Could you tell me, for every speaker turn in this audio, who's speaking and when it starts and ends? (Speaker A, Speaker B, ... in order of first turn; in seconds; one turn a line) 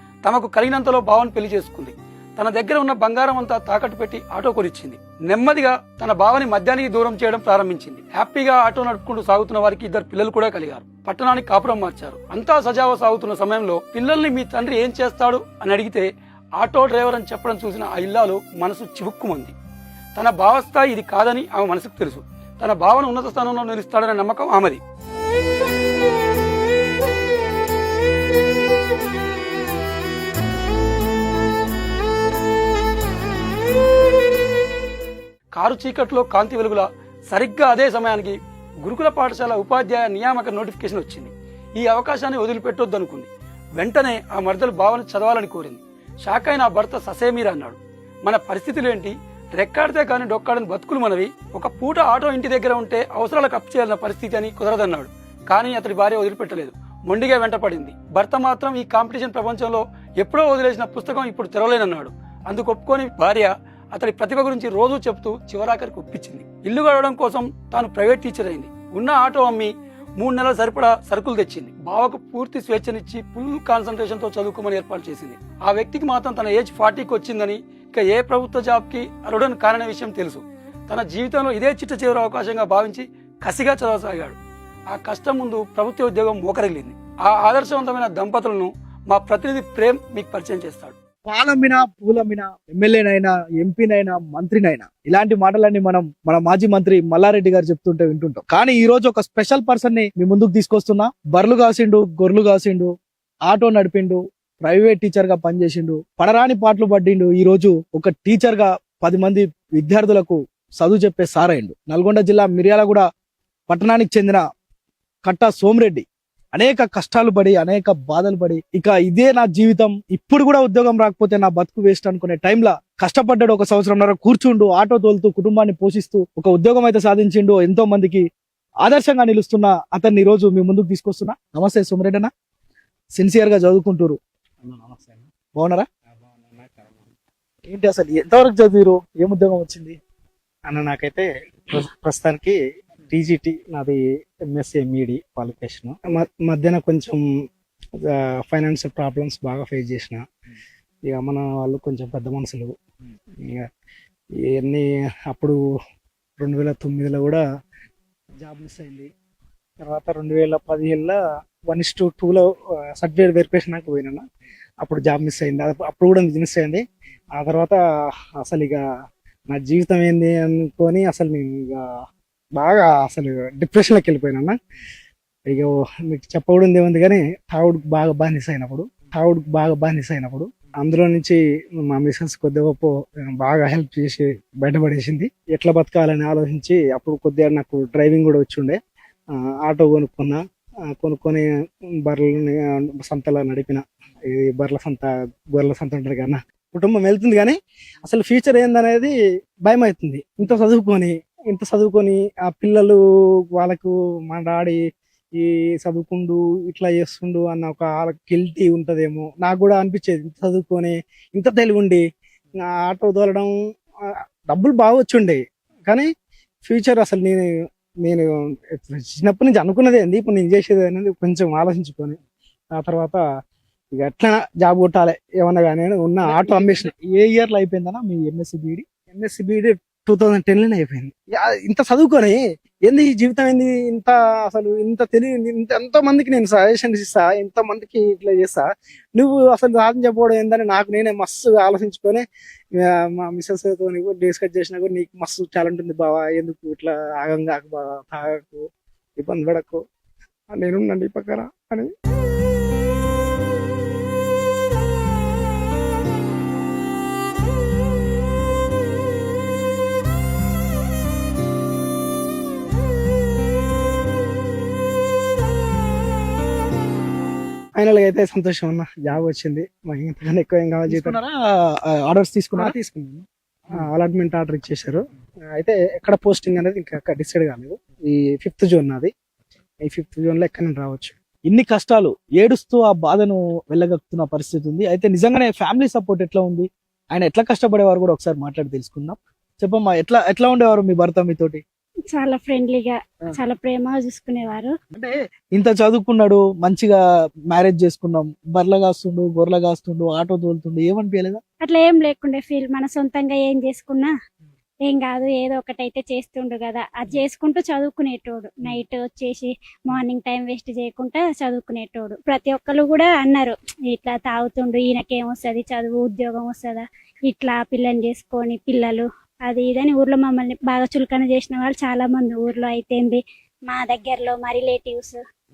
Speaker A: 0.2-19.6
Speaker A: 20.2-24.8
Speaker A: 35.5-84.4
Speaker A: 84.9-90.9
Speaker B: 91.3-102.9
Speaker B: 103.5-113.1
Speaker B: 113.7-114.4
Speaker B: 115.2-128.2
Speaker B: 128.8-132.3
Speaker B: 133.2-134.2
Speaker C: 134.6-135.3
Speaker B: 135.5-135.9
Speaker C: 136.2-137.1
Speaker B: 137.7-140.0
Speaker C: 140.7-142.6
Speaker C: 143.1-144.0
Speaker C: 144.5-147.2
Speaker C: 148.1-150.2
Speaker C: 151.1-152.7
Speaker C: 154.4-155.6
Speaker C: 156.4-157.4
Speaker C: 158.4-159.1
Speaker C: 159.8-161.2
Speaker C: 161.7-164.2
Speaker C: 164.8-166.8
Speaker C: 167.3-167.8
Speaker C: 168.4-168.8
Speaker C: 169.5-171.9
Speaker C: 172.6-174.5
Speaker C: 175.5-188.8
Speaker C: 189.7-190.4
Speaker C: 190.9-191.4
Speaker C: 192.1-199.1
Speaker C: 199.7-203.0
Speaker C: 203.6-204.8
Speaker C: 205.4-212.0
Speaker C: 212.7-213.5
Speaker C: 214.1-216.1
Speaker C: 216.7-217.4
Speaker C: 218.0-222.2
Speaker C: 222.8-223.2
Speaker C: 223.9-226.9
Speaker B: 226.2-228.8
Speaker C: 229.1-242.2
Speaker C: 242.8-248.6
Speaker C: 249.2-249.8
Speaker C: 250.5-251.9
Speaker C: 267.8-271.2
Speaker B: 270.9-272.7
Speaker C: 272.6-273.2
Speaker C: 273.7-275.0
Speaker C: 275.5-279.1
Speaker C: 279.9-281.1
Speaker B: 281.5-291.6
Speaker D: 292.1-294.7
Speaker B: 294.9-297.0
Speaker B: 297.5-301.4
Speaker D: 301.6-304.1
Speaker D: 304.9-325.2